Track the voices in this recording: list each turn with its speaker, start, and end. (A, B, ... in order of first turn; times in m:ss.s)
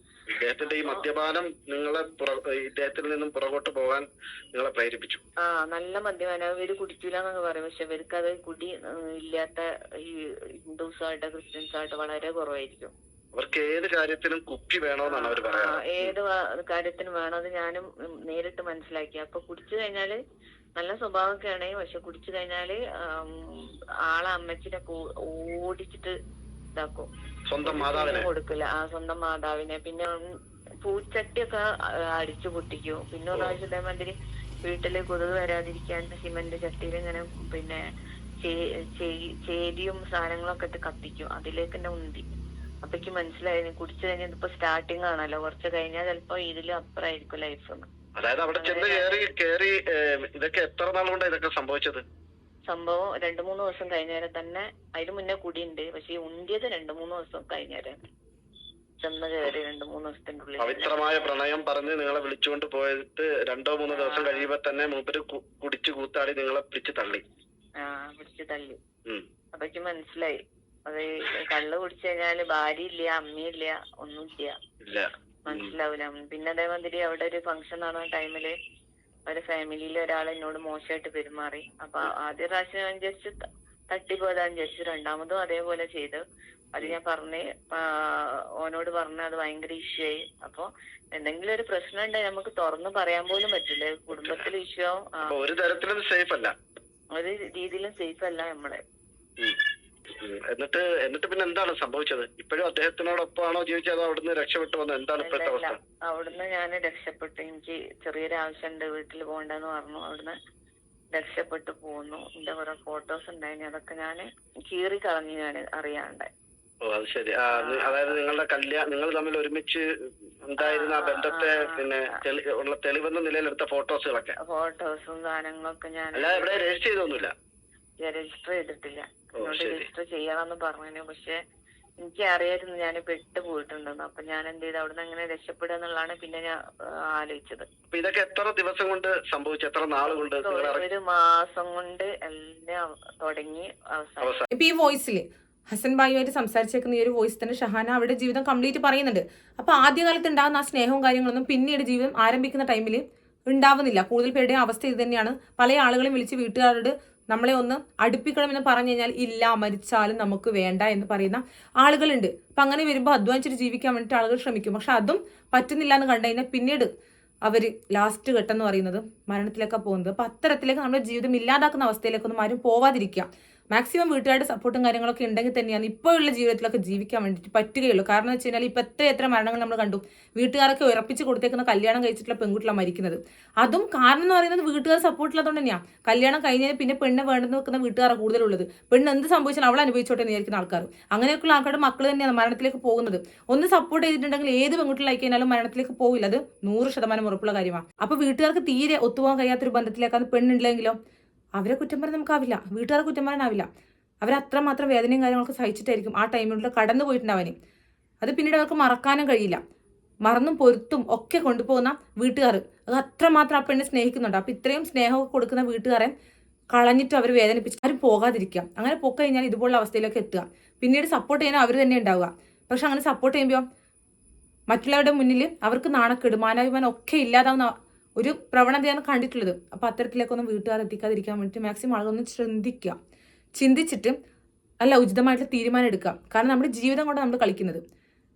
0:00.3-0:05.2 A
0:00.6-0:01.0 B
0:05.4-0:12.9 B
0:13.3-0:16.1 A
0:15.1-0:20.2 B
0:20.8-0:26.1 B
0:26.7-0:27.1 B
0:27.5-0:28.3 A
0:27.6-0:30.2 B
0:30.8-0:31.6 B
0:32.1-0:37.8 B
0:38.4-0:42.2 B
0:42.8-0:47.9 B
0:48.2-0:52.0 A
0:48.5-0:49.3 B
0:52.7-0:58.0 B
0:59.0-1:01.0 B
1:00.6-1:07.2 A
1:03.9-1:04.5 B
1:07.8-1:08.8 B
1:09.5-1:14.5 B
1:14.8-1:15.7 A
1:15.5-1:18.5 B
1:19.3-1:23.4 B
1:23.9-1:26.2 B
1:26.7-1:35.3 B
1:34.1-1:34.5 A
1:35.2-1:36.5 A
1:37.1-1:38.8 B
1:40.2-1:45.8 A
1:45.2-1:50.3 B
1:51.1-1:56.3 B
1:56.8-1:59.8 A
1:57.5-1:58.2 B
2:00.4-2:04.4 A
2:00.6-2:01.9 B
2:04.4-2:06.6 B
2:06.1-2:07.3 A
2:08.0-2:11.4 B
2:09.4-2:09.9 A
2:12.0-2:16.5 B
2:17.1-2:17.7 B
2:17.9-2:20.8 A
2:20.4-2:24.4 B
2:24.5-2:46.9 C
2:47.4-3:21.0 C
3:21.6-3:23.6 C
3:24.2-3:27.5 C
3:28.2-3:29.6 C
3:30.2-3:36.1 C
3:36.7-3:43.6 C
3:44.7-3:52.9 C
3:53.6-3:54.2 C
3:54.8-3:57.8 C